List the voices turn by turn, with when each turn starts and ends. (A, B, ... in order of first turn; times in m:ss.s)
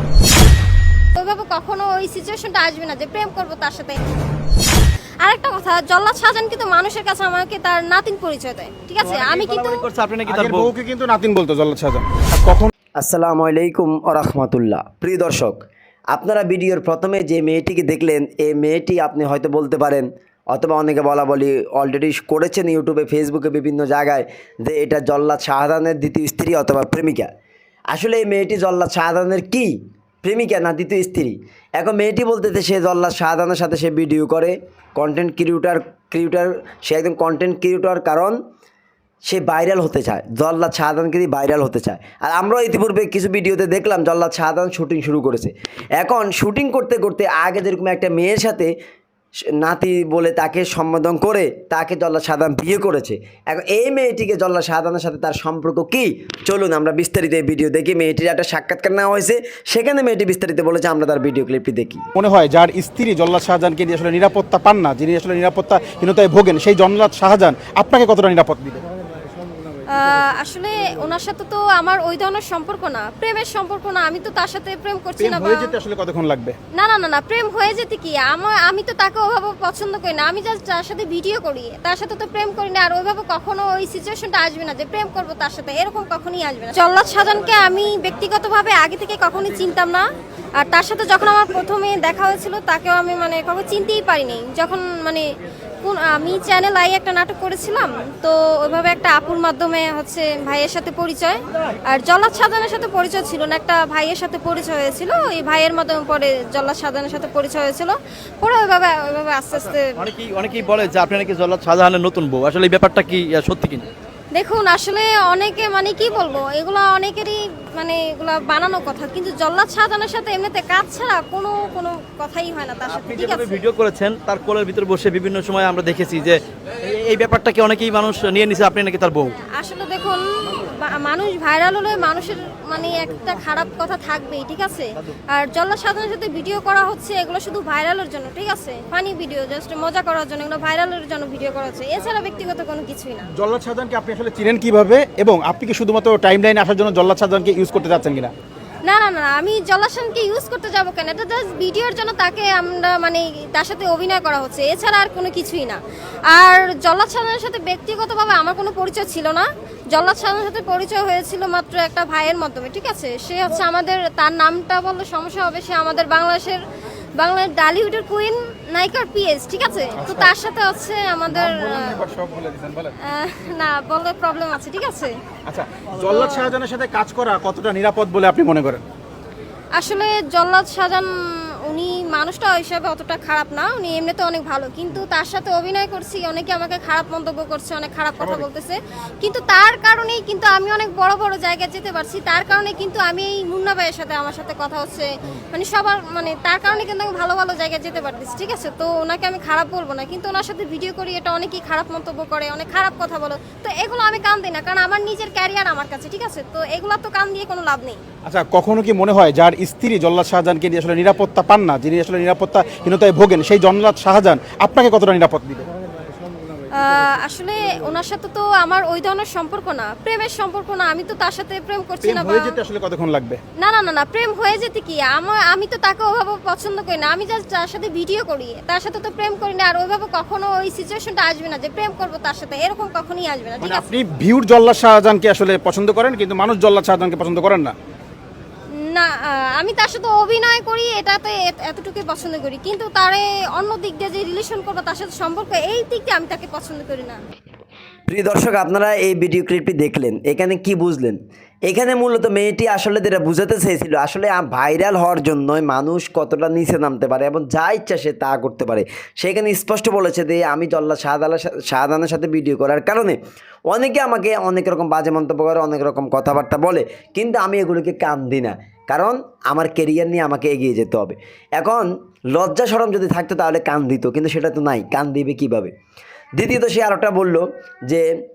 0:01.1-0:04.0 A
0:05.2-0:09.8 A
0:09.0-0:10.7 B
0:10.2-0:12.7 C
0:13.0-0:15.6 D
0:16.1-0:27.3 D
0:27.9-0:38.4 D
0:39.2-0:48.7 D
0:49.6-1:02.0 D
1:02.1-1:08.8 C
1:09.9-1:15.7 A
1:15.2-1:16.6 C
1:16.7-1:30.0 A
1:30.6-1:35.2 A
1:35.8-1:50.0 A
1:50.0-1:53.9 B
1:54.3-2:03.6 A
2:02.9-2:09.4 B
2:09.4-2:23.3 A
2:23.4-2:28.3 C
2:28.8-2:46.6 A
2:47.2-2:52.0 A
2:50.0-2:50.3 C
2:51.3-2:52.9 C
2:53.0-2:55.1 A
2:55.4-2:58.8 C
2:56.1-2:56.5 A
2:59.8-3:01.1 A
3:01.6-3:28.0 A
3:08.2-3:08.4 C
3:28.2-3:35.7 C
3:36.7-3:42.6 A
3:42.0-3:43.4 C
3:43.6-3:53.8 A
3:53.6-3:57.7 C
3:58.7-4:07.2 A
4:08.1-4:23.2 D
4:23.7-4:35.7 D
4:36.4-4:38.1 D